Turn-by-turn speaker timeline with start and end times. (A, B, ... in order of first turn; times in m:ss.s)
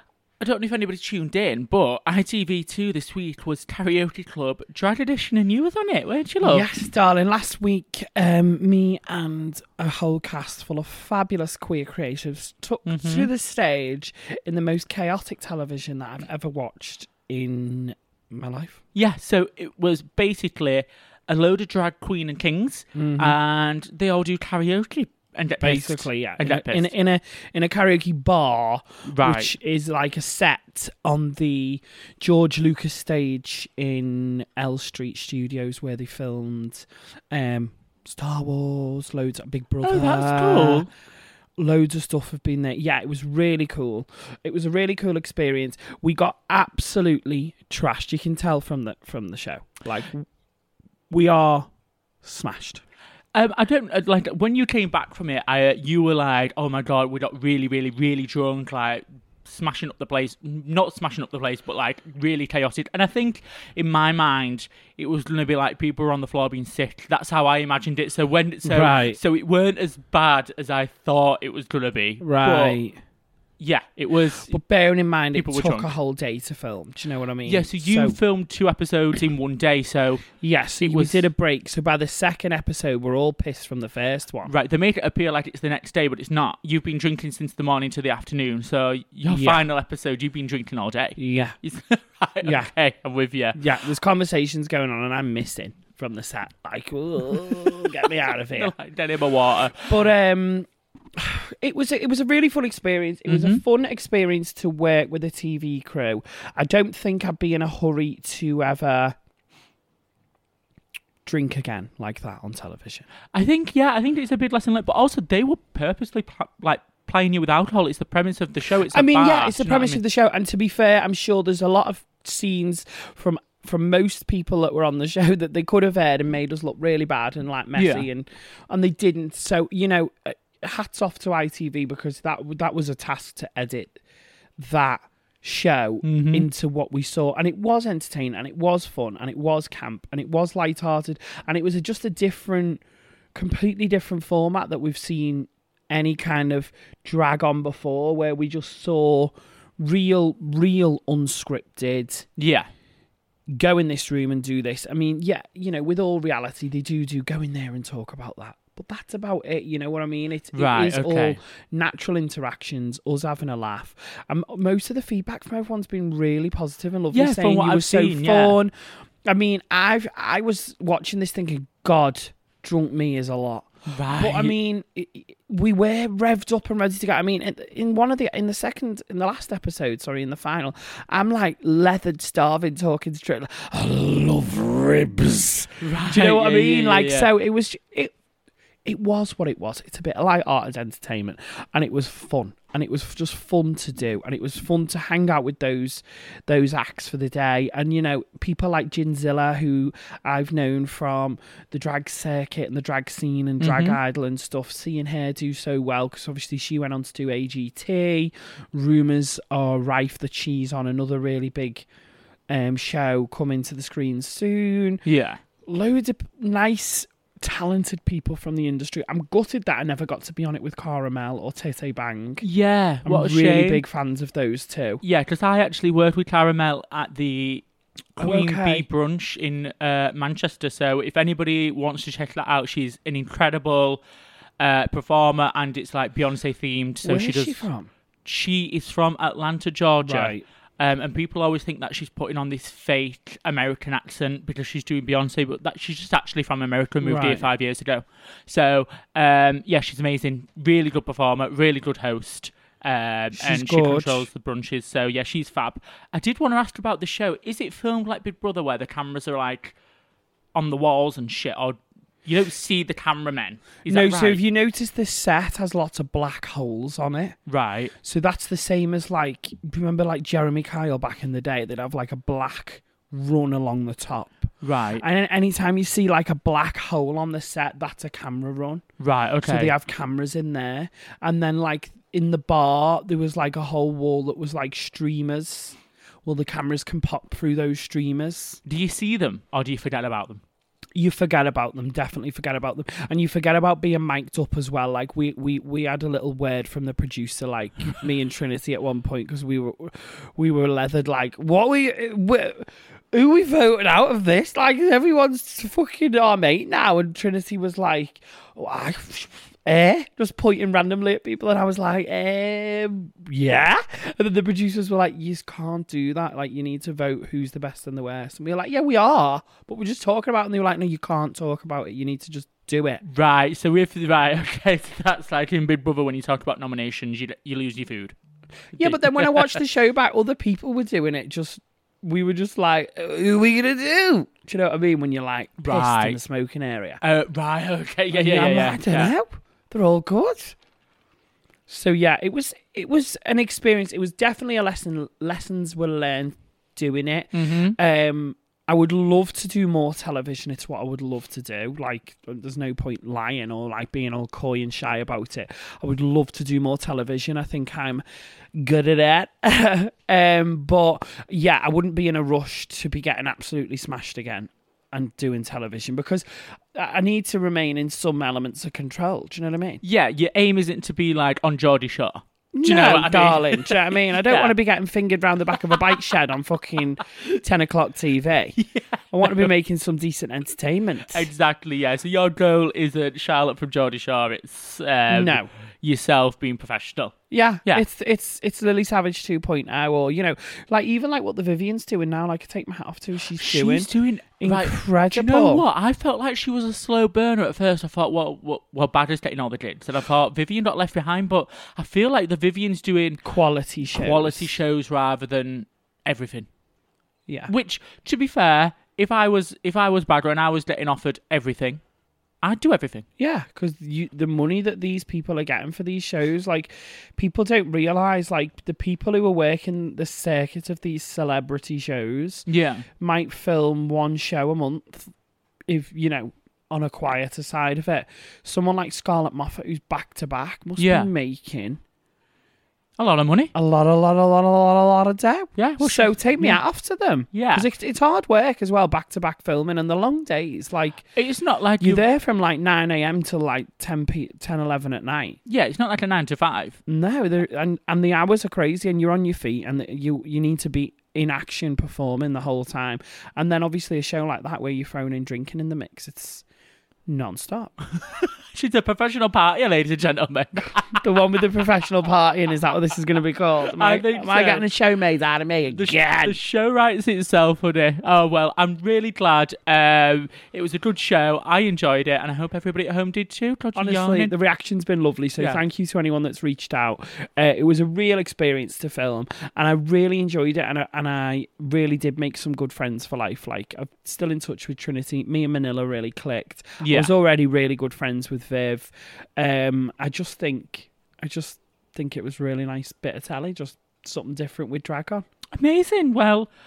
0:00.4-0:06.7 A
0:06.4-0:18.8 B
0:12.9-0:13.3 A
0:19.0-0:26.9 A
0:23.0-0:23.4 B
0:25.6-0:40.9 B
0:29.1-0:29.5 A
0:39.8-0:40.9 A
0:41.6-0:50.3 B
0:51.1-0:51.7 B
0:52.2-0:52.8 B
0:53.3-1:12.8 A
1:08.6-1:09.2 B
1:12.2-1:13.0 B
1:13.6-1:14.6 A
1:14.5-1:18.2 B
1:15.4-1:15.9 A
1:17.5-1:20.3 A
1:20.4-1:24.5 B
1:20.8-1:21.3 A
1:24.5-1:33.6 A
1:29.3-1:29.6 B
1:31.2-1:31.6 B
1:32.4-1:32.7 B
1:33.6-1:38.7 B
1:37.4-1:40.0 A
1:39.8-1:49.2 B
1:43.3-1:43.6 A
1:51.2-1:53.1 B
1:53.3-2:00.0 A
1:58.9-2:14.0 B
2:07.8-2:08.1 A
2:14.6-2:22.8 B
2:16.0-2:16.5 A
2:23.3-2:32.3 B
2:32.4-2:32.7 A
2:33.5-2:48.7 B
2:40.5-2:41.4 A
2:47.1-2:48.6 A
2:49.2-3:08.1 B
2:53.9-2:54.5 A
3:05.8-3:07.3 A
3:08.8-3:31.9 B
3:23.6-3:24.0 A
3:32.5-3:35.0 B
3:35.0-3:35.4 A
3:35.6-3:42.4 B
3:42.4-3:43.8 A
3:43.0-3:45.0 B
3:45.0-3:47.6 A
3:48.2-3:54.0 A
3:48.2-3:48.8 B
3:54.6-3:57.7 A
3:57.0-3:57.9 B
3:58.2-4:19.8 A
4:00.0-4:00.4 B
4:07.0-4:07.5 B
4:13.4-4:14.3 B
4:20.6-4:24.4 A
4:23.9-4:27.4 B
4:27.5-4:27.9 A
4:28.0-4:38.8 B
4:34.6-4:35.0 A
4:39.0-4:39.7 A
4:39.4-4:48.6 B
4:48.6-4:50.4 A
4:51.0-5:23.0 B
5:23.0-5:28.2 A
5:28.8-5:29.6 A
5:28.8-5:37.0 B
5:35.6-5:36.2 A
5:37.0-5:39.1 A
5:38.1-5:40.6 B
5:41.7-5:58.0 B
5:47.3-5:47.8 A
5:58.6-6:09.8 B
6:09.8-6:14.6 A
6:12.5-6:18.6 B
6:18.6-6:19.5 A
6:19.1-6:21.3 B
6:21.1-6:27.8 A
6:25.1-6:25.5 B
6:27.3-6:33.9 B
6:33.4-6:43.2 A
6:34.4-6:35.6 B
6:43.2-6:44.5 B
6:43.9-6:46.5 A
6:47.5-6:51.8 A
6:52.4-6:53.1 A
6:53.2-7:05.1 B
7:02.5-7:02.9 A
7:05.7-7:11.8 B
7:10.8-7:11.1 A
7:13.0-7:13.5 A
7:13.6-7:21.1 B
7:15.6-7:16.6 A
7:17.3-7:17.7 A
7:21.2-7:22.0 A
7:21.8-7:25.4 B
7:25.5-7:26.8 A
7:26.9-7:36.4 B
7:37.1-7:37.8 B
7:38.0-7:41.0 A
7:40.9-7:46.4 B
7:43.7-7:44.7 A
7:45.7-7:54.3 A
7:53.8-8:15.2 B
8:06.8-8:07.1 A
8:15.6-8:16.5 A